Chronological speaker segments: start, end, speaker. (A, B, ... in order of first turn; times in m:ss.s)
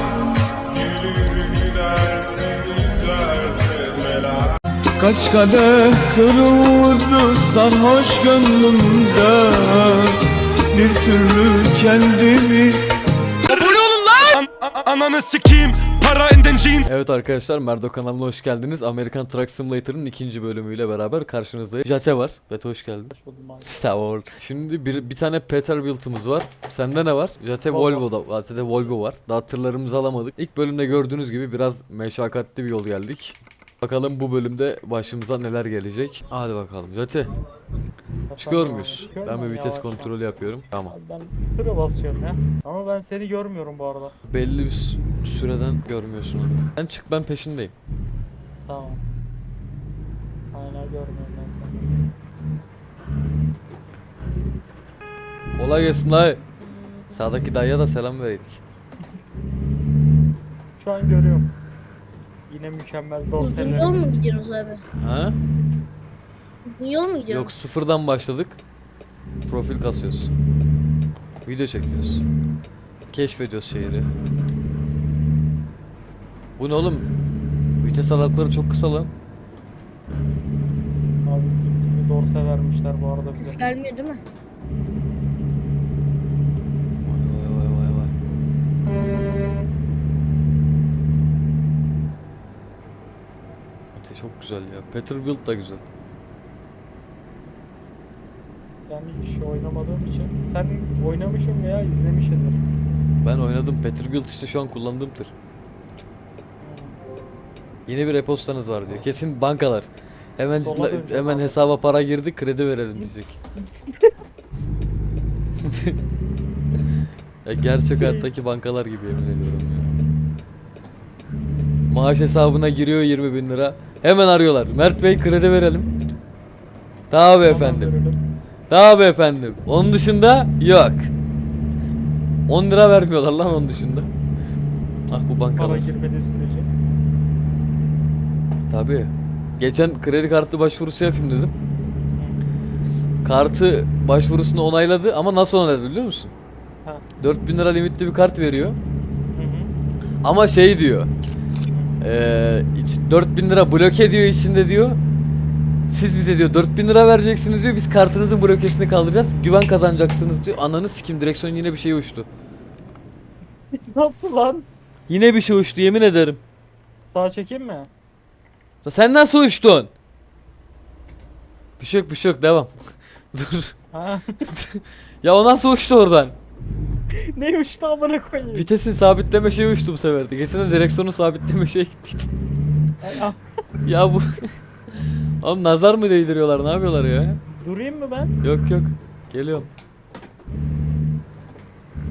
0:01.0-0:04.0 A
0:05.0-0:12.8 A
0:13.5-0:16.8 B
0:16.9-0:23.1 C
0:23.1-0:23.7 D
0:23.6-0:37.3 C
0:27.7-0:28.1 D
0:38.3-0:40.1 D
0:38.4-0:40.9 C
0:40.9-0:44.1 D
0:44.3-0:47.7 C
0:48.6-0:49.0 D
0:50.5-0:51.8 D
0:55.6-0:56.4 C
0:57.1-0:58.6 C
1:00.8-1:01.5 D
1:02.5-1:04.2 D
1:03.4-1:04.8 E
1:05.0-1:05.4 C
1:06.7-1:07.5 E
1:07.3-1:08.6 C
1:09.5-1:10.3 C
1:11.4-1:12.2 C
1:13.1-1:14.1 C
1:16.6-1:17.1 C
1:17.8-1:19.1 C
1:21.2-1:23.6 D
1:23.4-1:24.2 E
1:27.0-1:28.1 C
1:33.9-1:35.8 C
1:38.9-1:42.6 D
1:43.2-1:45.3 C
1:46.6-1:47.0 D
1:47.9-1:53.4 C
1:50.6-1:51.7 D
1:53.0-1:54.1 D
1:55.6-1:56.0 C
1:57.4-2:00.0 C
1:57.9-1:58.3 D
2:01.9-2:05.9 C
2:07.1-2:07.9 C
2:07.4-2:08.2 D
2:08.7-2:11.1 C
2:12.5-2:14.1 C
2:15.1-2:15.9 C
2:15.5-2:16.7 D
2:18.7-2:21.5 C
2:22.2-2:22.4 D
2:23.2-2:26.3 C
2:27.2-2:28.8 C
2:29.3-2:29.7 D
2:30.2-2:31.1 C
2:31.7-2:32.0 D
2:32.0-2:35.0 C
2:35.9-2:42.3 C
2:43.7-2:44.7 D
2:45.1-2:46.4 C
2:47.1-2:47.9 D
2:48.8-2:49.9 C
2:51.8-2:53.7 C
2:53.9-2:54.5 D
2:54.5-2:56.4 C
2:57.2-2:58.7 D
2:58.5-3:02.3 C
3:03.0-3:03.4 D
3:03.8-3:04.5 C
3:05.0-3:07.4 C
3:07.6-3:08.3 D
3:08.4-3:09.7 C